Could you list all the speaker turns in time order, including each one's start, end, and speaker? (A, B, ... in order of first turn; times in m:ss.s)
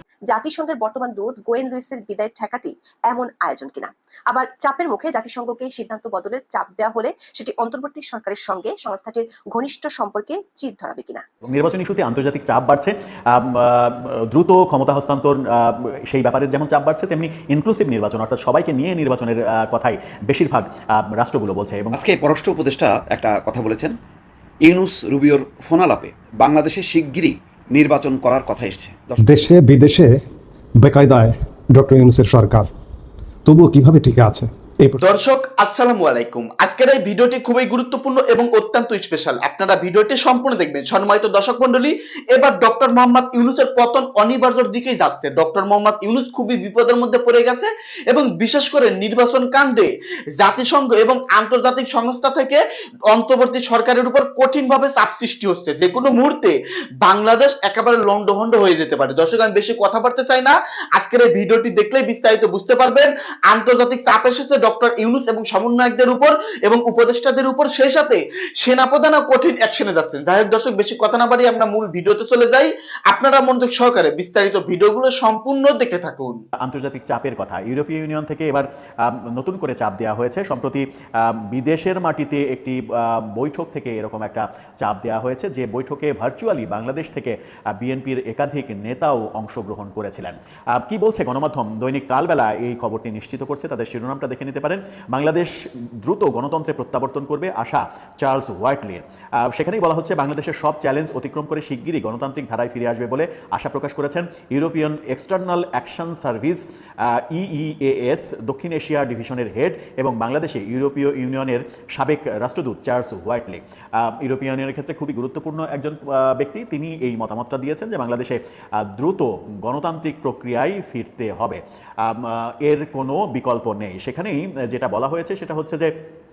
0:00.3-0:11.2 A
0:11.5-0:22.0 B
0:21.9-0:23.9 C
0:24.6-0:29.4 C
0:29.2-0:30.2 D
0:30.8-0:32.7 D
0:33.4-0:35.0 D
0:35.0-1:16.4 E
1:16.6-2:05.9 B